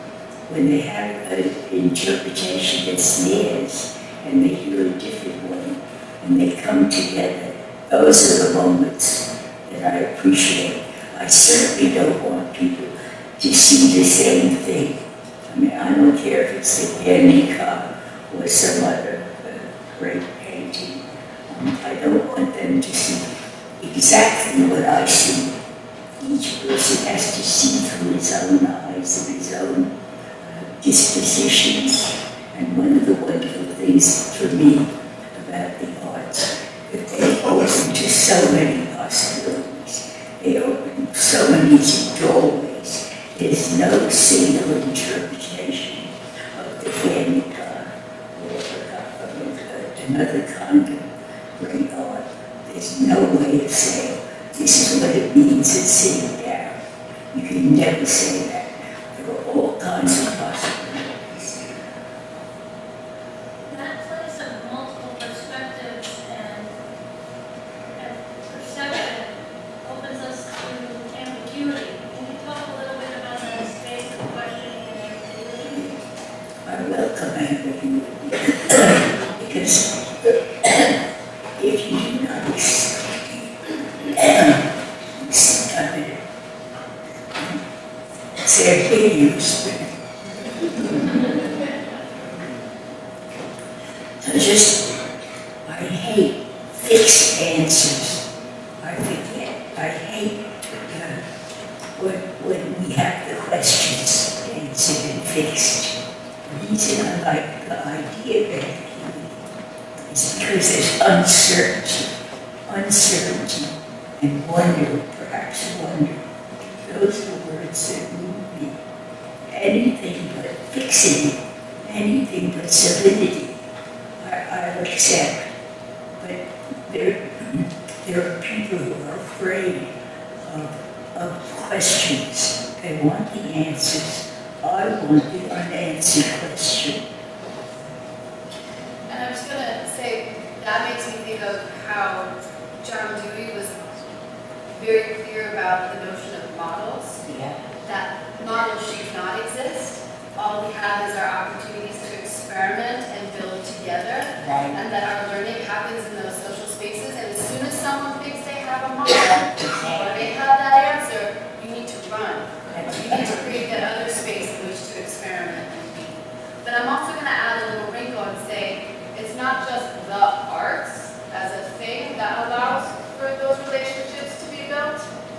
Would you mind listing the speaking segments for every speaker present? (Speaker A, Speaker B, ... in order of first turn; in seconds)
Speaker A: 0.5-23.2, 23.8-25.6, 26.2-56.8, 57.3-61.8, 76.7-81.0, 81.6-83.5, 84.1-86.2, 87.3-87.6, 88.3-90.0, 90.6-91.2, 94.2-95.0, 95.7-98.2, 98.8-101.2, 102.0-109.4, 110.1-112.1, 112.7-118.8, 119.5-123.6, 124.2-125.4, 126.2-129.9, 130.4-137.0, 147.2-147.6, 154.4-154.8, 159.1-160.2, 162.7-163.4
Speaker B: 63.6-66.8, 68.0-76.0
Speaker C: 139.1-143.9, 144.7-147.2, 147.8-175.1